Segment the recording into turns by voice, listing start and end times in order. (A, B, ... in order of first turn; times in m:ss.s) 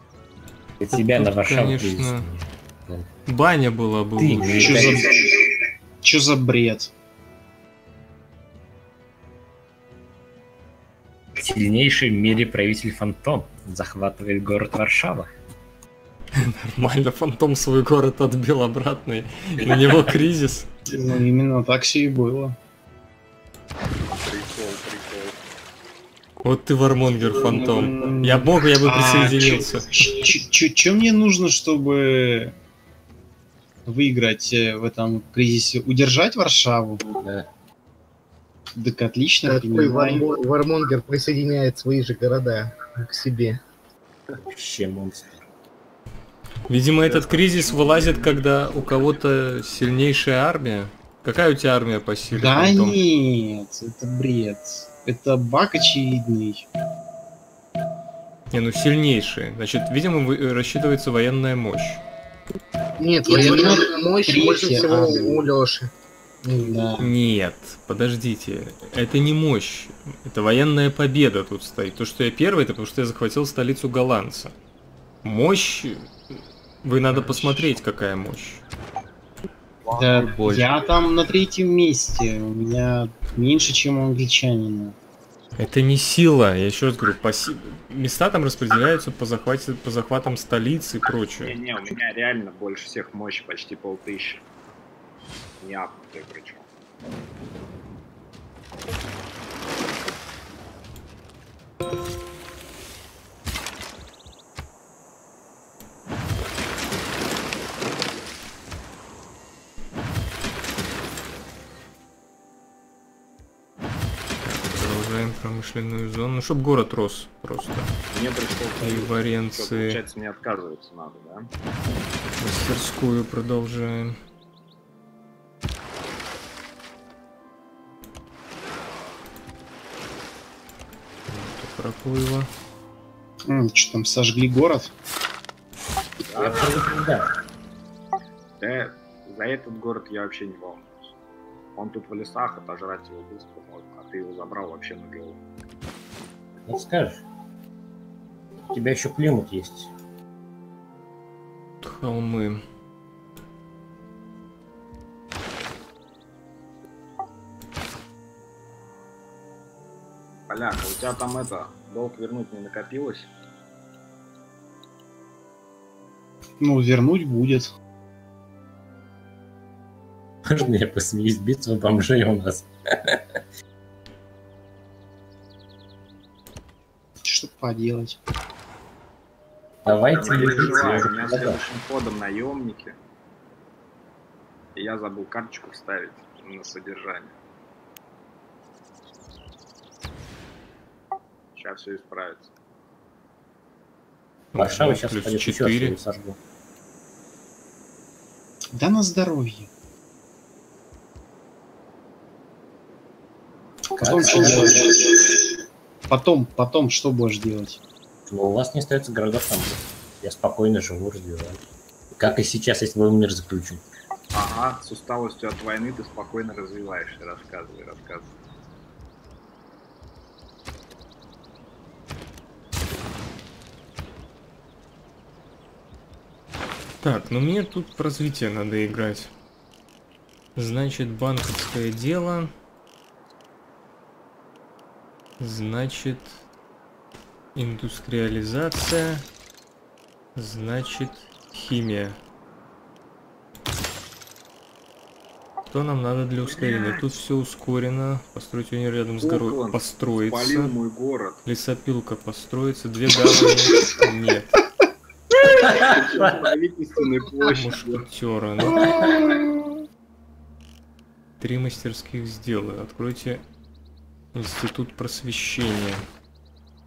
0:00.8-0:03.2 A
0:00.9-0:02.3 B
0:03.3-0:05.0 B
0:04.2-0:05.0 A
0:04.5-0:06.9 C
0:11.4-0:15.3 A
0:16.4-0:20.7 B
0:19.6-0:20.1 A
0:20.9-0:22.6 C
0:24.1-0:25.4 D
0:26.4-0:29.8 B
0:27.3-0:32.6 C
0:33.9-0:37.0 C
0:37.0-0:37.5 A
0:38.7-0:40.3 C
0:39.5-0:43.6 E
0:44.5-0:45.4 A
0:46.7-0:53.0 B
0:47.1-0:48.3 D
0:52.3-0:56.7 C
0:58.5-1:02.0 B
1:03.0-1:05.9 E
1:03.2-1:05.5 C
1:06.4-1:06.9 E
1:06.6-1:07.2 C
1:07.0-1:14.5 B
1:15.2-1:18.6 B
1:17.1-1:17.7 C
1:19.8-1:20.8 D
1:20.0-1:25.0 C
1:25.6-1:31.6 B
1:31.4-1:34.4 D
1:35.6-1:36.7 D
1:54.4-1:57.9 B
1:58.1-2:01.5 D
1:58.8-2:00.0 B
2:02.4-2:04.2 B
2:11.3-2:12.5 B
2:13.5-2:14.9 C
2:16.3-2:16.9 D
2:16.3-2:17.3 A
2:18.6-2:20.9 D
2:21.8-2:25.4 D
2:26.7-2:27.2 A
2:28.7-2:29.9 A
2:31.8-2:32.6 B
2:40.5-2:43.3 D
2:46.6-2:47.7 C
2:50.5-2:53.4 A
2:57.2-2:58.2 C
2:59.8-3:01.6 A
2:59.9-3:03.0 D
3:00.6-3:01.0 C
3:04.8-3:07.3 D
3:11.6-3:12.5 D
3:14.5-3:16.0 B
3:14.6-3:16.4 A
3:18.7-3:19.7 C
3:23.9-3:25.4 C
3:24.0-3:24.8 A
3:26.1-3:27.8 C
3:28.3-3:31.6 A
3:32.2-3:33.8 A
3:34.3-3:38.3 D
3:47.0-3:49.3 B
3:50.6-3:52.5 B
3:55.4-3:56.4 B
3:57.6-3:59.3 B
4:00.4-4:02.2 B
4:05.7-4:10.8 B
4:06.5-4:07.0 A
4:09.2-4:11.4 D
4:11.4-4:14.5 B
4:15.4-4:16.5 A
4:15.6-4:18.1 D
4:17.6-4:19.0 B
4:18.8-4:19.2 A
4:21.4-4:23.4 B
4:24.3-4:26.0 B